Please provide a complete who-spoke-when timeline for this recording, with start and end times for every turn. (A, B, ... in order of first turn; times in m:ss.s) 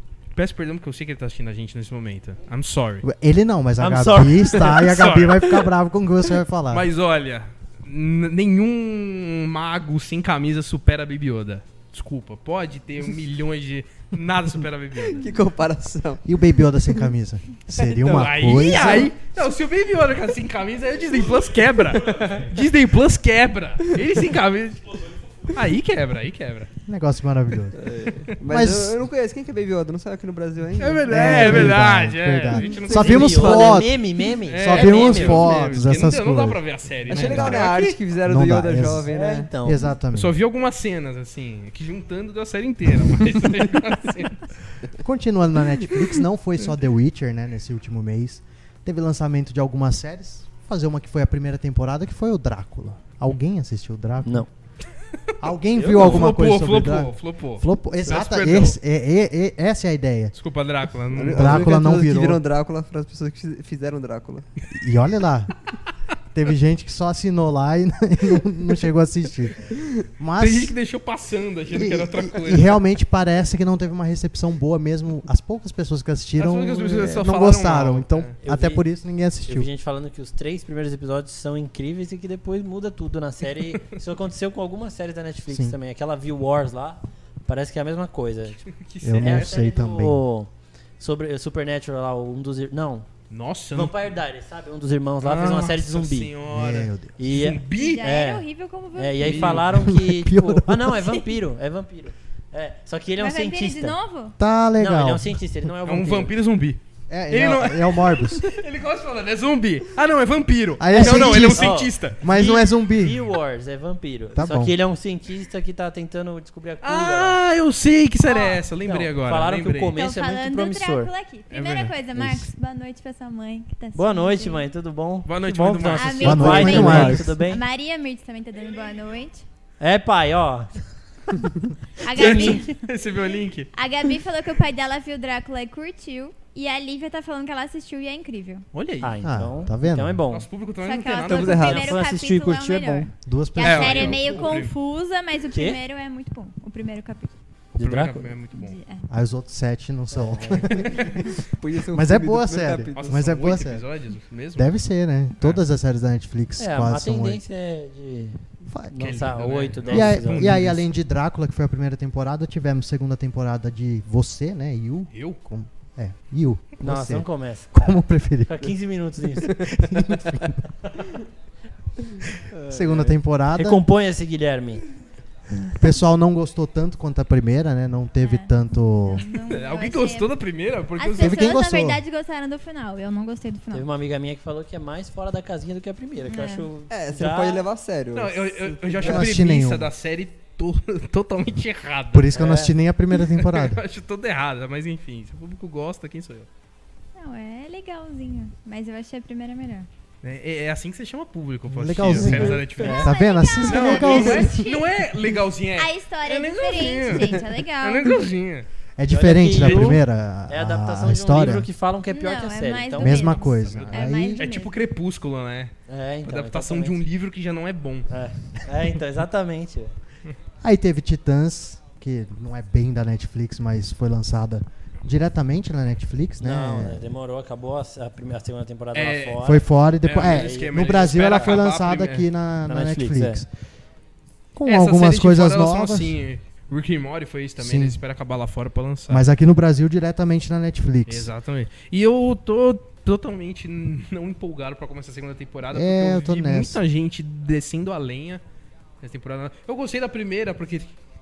0:00.3-0:03.0 A
0:03.0-0:06.9 B
0:03.8-0:04.8 C
0:04.6-0:05.7 A
0:06.7-0:15.3 A
0:15.0-0:16.3 D
0:16.2-0:19.1 B
0:17.8-0:26.7 A
0:21.9-0:22.4 D
0:26.8-0:27.8 B
0:27.7-0:31.8 D
0:28.5-0:29.0 B
0:30.8-0:33.7 A
0:31.1-0:34.0 B
0:32.6-0:33.8 D
0:32.9-0:35.6 C
0:34.5-0:38.0 A
0:34.6-0:37.7 B
0:37.1-0:39.5 D
0:38.2-0:39.1 B
0:39.1-0:39.9 C
0:39.6-0:40.3 B
0:40.1-0:44.5 A
0:45.0-0:54.5 B
0:55.2-0:58.8 A
0:55.4-1:00.3 B
1:00.3-1:01.7 A
1:01.1-1:04.4 D
1:01.2-1:02.4 B
1:04.7-1:05.5 B
1:06.3-1:10.7 B
1:10.4-1:12.8 A
1:11.7-1:19.7 B
1:16.4-1:18.3 A
1:18.4-1:18.8 C
1:19.4-1:28.6 C
1:25.5-1:25.8 B
1:28.6-1:29.6 A
1:29.0-1:30.2 B
1:29.2-1:33.1 C
1:33.3-1:34.1 A
1:33.7-1:36.3 C
1:35.2-1:38.0 A
1:36.5-1:37.2 B
1:37.2-1:44.0 C
1:37.7-1:39.5 E
1:39.2-1:39.7 A
1:39.5-1:40.9 B
1:43.2-1:44.4 E
1:44.4-1:45.4 B
1:44.8-1:46.3 C
1:45.8-1:52.2 A
1:47.1-1:48.5 B
1:50.8-1:53.3 B
1:50.9-1:57.4 C
1:54.3-1:54.7 B
1:56.8-2:00.0 A
1:58.2-1:58.6 E
1:58.8-2:01.1 C
1:59.9-2:04.6 E
2:01.5-2:01.9 A
2:03.9-2:07.6 C
2:05.2-2:07.2 A
2:05.9-2:09.4 E
2:06.2-2:07.4 B
2:09.8-2:10.8 C
2:12.0-2:12.8 E
2:12.1-2:12.6 C
2:12.1-2:13.7 A
2:13.7-2:18.6 E
2:18.7-2:19.2 A
2:19.0-2:20.5 C
2:19.2-2:20.2 B
2:20.3-2:21.8 A
2:20.8-2:27.3 E
2:21.3-2:21.9 D
2:21.3-2:23.1 C
2:23.2-2:24.2 B
2:23.6-2:24.7 A
2:25.5-2:25.8 C
2:27.8-2:28.3 C
2:27.8-2:28.8 A
2:28.5-2:29.1 E
2:29.1-2:31.4 B
2:30.1-2:30.8 C
2:30.8-2:31.1 A
2:31.4-2:33.2 D
2:31.9-2:33.8 B
2:32.9-2:34.8 A
2:34.6-2:37.4 B
2:36.6-2:40.8 C
2:38.7-2:39.0 B
2:39.0-2:40.7 A
2:39.9-2:48.7 B
2:45.1-2:45.4 A
2:46.8-2:49.6 C
2:49.4-2:50.6 B
2:52.5-2:53.1 D
2:52.7-2:53.8 B
2:53.5-2:54.8 C
2:55.8-2:59.2 B
2:58.2-3:00.3 E
2:59.4-3:01.5 A
3:01.0-3:03.9 E
3:01.2-3:02.0 B
3:03.7-3:07.6 C
3:06.2-3:06.7 E
3:06.9-3:09.2 D
3:08.1-3:12.3 A
3:09.0-3:09.9 B
3:12.1-3:13.8 B
3:12.3-3:12.7 C
3:13.1-3:16.5 A
3:17.2-3:19.9 E
3:20.2-3:28.7 A
3:21.7-3:24.6 B
3:22.0-3:23.0 C
3:22.8-3:25.0 E
3:25.7-3:28.3 E
3:29.0-3:31.7 B
3:29.1-3:33.4 C
3:32.1-3:34.7 E
3:33.0-3:34.4 B
3:33.5-3:35.7 A
3:35.9-3:37.0 C
3:36.2-3:38.1 A
3:38.1-3:40.0 C
3:40.6-3:47.1 B
3:46.4-3:49.6 C
3:48.9-3:49.5 A
3:49.4-3:53.5 B
3:50.0-3:52.3 A
3:50.3-3:50.6 C
3:52.7-3:53.4 C
3:54.5-3:56.1 B
3:54.6-3:59.2 A
3:57.6-3:58.0 B
3:59.1-4:01.3 B
4:01.1-4:08.4 A
4:05.7-4:06.8 B
4:09.0-4:10.9 A